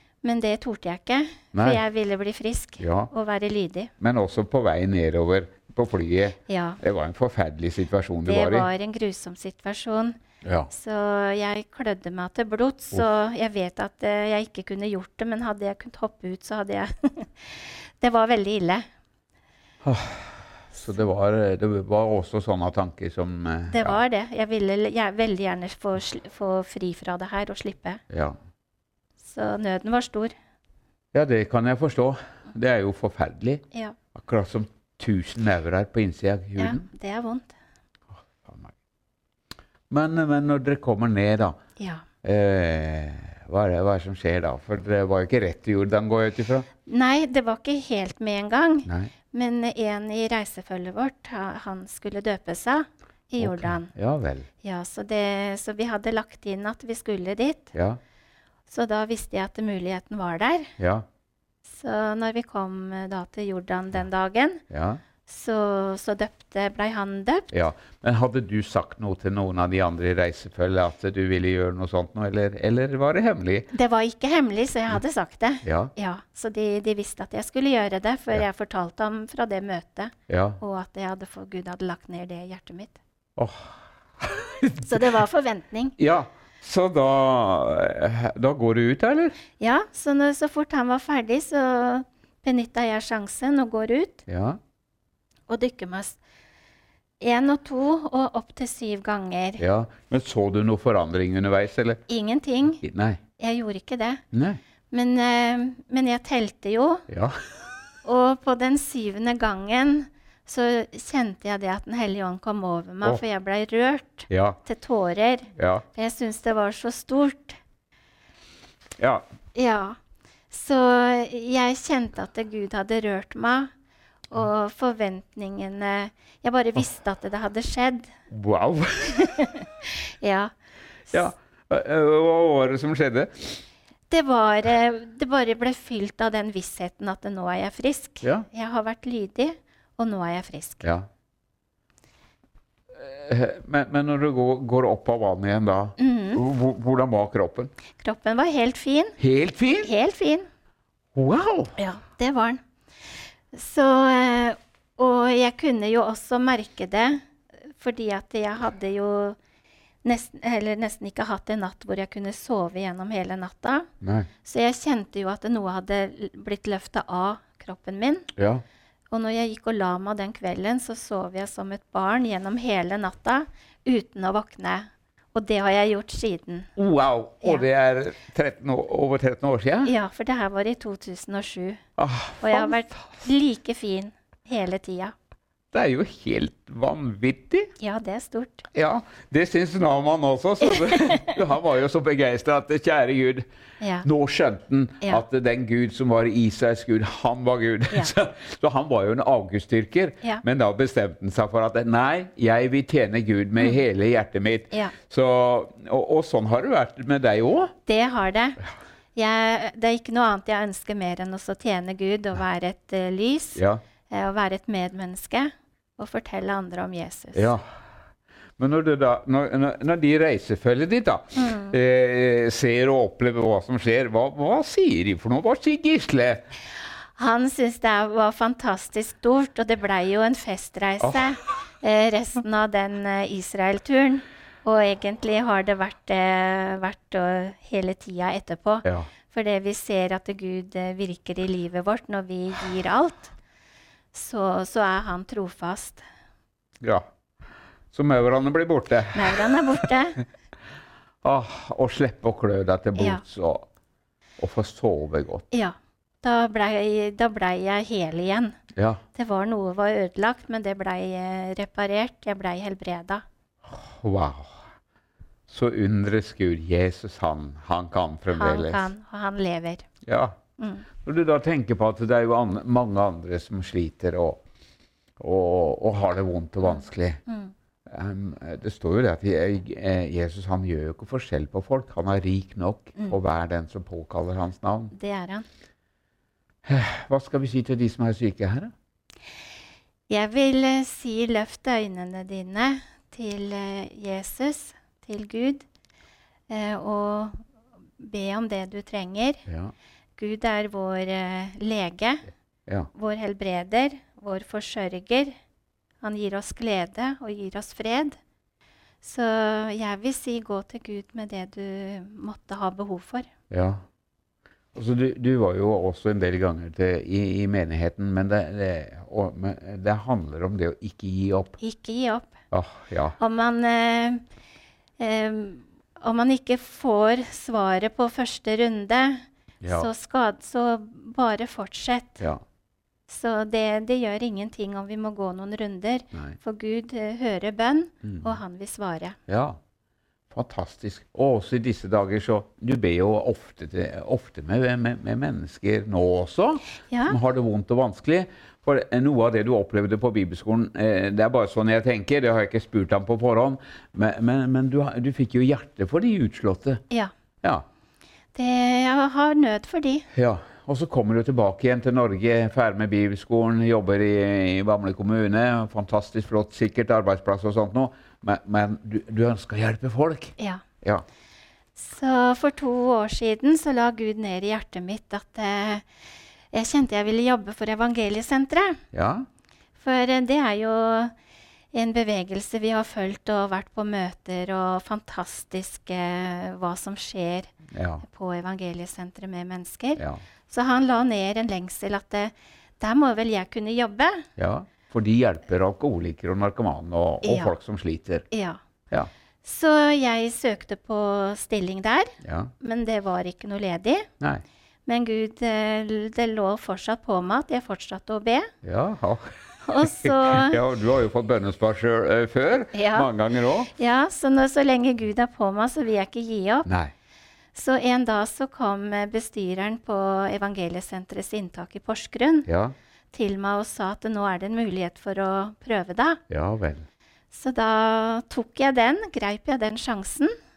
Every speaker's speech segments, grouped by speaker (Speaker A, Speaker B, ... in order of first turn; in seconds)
Speaker A: 0.2-3.9, 6.5-6.8, 8.2-10.2, 10.7-18.9, 23.7-28.0, 29.2-30.3, 36.6-37.5, 41.8-42.0, 46.9-53.9, 54.6-57.7, 58.7-60.7, 61.7-64.6, 65.2-67.5, 73.7-83.0, 84.8-86.0, 89.6-94.2, 95.5-96.2, 97.2-99.6, 102.1-102.8, 103.4-104.2, 104.9-107.0, 108.0-117.6, 119.5-120.0, 120.5-123.7, 124.3-128.1, 129.1-130.5, 134.1-140.8, 146.0-146.4, 148.0-149.2, 149.8-150.5, 151.8-152.6, 153.5-157.2, 157.8-159.4, 160.0-163.9, 164.4-168.3, 169.1-176.7, 179.8-181.8, 182.4-185.1, 187.8-188.7, 190.6-191.3, 193.8-194.1, 207.8-208.6, 209.1-217.5, 221.3-221.7, 227.2-243.3, 244.1-246.0, 249.1-250.2, 253.0-253.2, 255.5-258.6, 259.1-263.2, 268.3-269.9, 270.6-270.9, 276.7-277.5, 284.9-285.4, 290.1-295.6, 296.5-297.4, 298.0-299.4, 300.2-302.3, 302.9-305.3, 306.0-308.2, 309.0-313.3, 321.6-322.4, 323.2-324.2, 325.0-332.2, 333.1-339.2, 346.9-347.2, 358.3-360.1, 370.4-370.6, 371.7-375.8, 376.5-378.8, 379.8-381.1, 381.7-387.5, 388.0-394.3, 397.2-397.5, 398.3-398.6, 399.4-404.1, 404.9-408.5, 409.6-410.6, 412.7-413.1, 413.7-416.7, 417.5-422.5, 423.1-426.2, 427.3-430.3
Speaker B: 1.5-1.8, 2.8-3.1, 4.0-8.7, 10.4-10.7, 19.8-24.0, 28.1-28.4, 31.1-36.9, 38.3-38.7, 39.9-41.6, 42.2-46.7, 48.9-49.1, 53.4-54.5, 57.7-58.0, 60.8-61.0, 64.7-65.0, 67.5-73.7, 75.6-75.9, 80.3-80.6, 83.3-85.1, 86.0-89.3, 94.3-94.6, 99.6-102.0, 102.8-103.2, 104.3-104.6, 107.1-107.4, 114.3-114.6, 115.5-115.8, 119.0-119.2, 128.3-129.3, 131.1-133.6, 142.9-147.7, 149.2-149.9, 151.1-151.8, 164.0-164.3, 168.3-168.6, 176.8-179.9, 182.0-183.0, 185.7-187.7, 188.7-193.4, 194.0-207.7, 213.6-213.8, 217.3-217.6, 218.6-226.4, 238.8-239.1, 246.8-247.1, 247.9-249.9, 251.2-253.7, 254.4-255.4, 258.7-259.0, 263.7-264.6, 265.5-268.9, 270.0-270.4, 270.9-274.4, 275.2-277.2, 277.9-284.9, 286.6-288.7, 299.5-299.7, 313.5-313.8, 314.7-321.6, 322.5-323.1, 329.6-329.9, 338.0-338.3, 339.3-339.6, 340.3-356.8, 360.1-371.0, 378.9-379.3, 387.7-388.0, 394.4-398.2, 402.2-402.5, 408.6-413.7, 416.6-416.9, 422.4-422.7, 426.3-426.9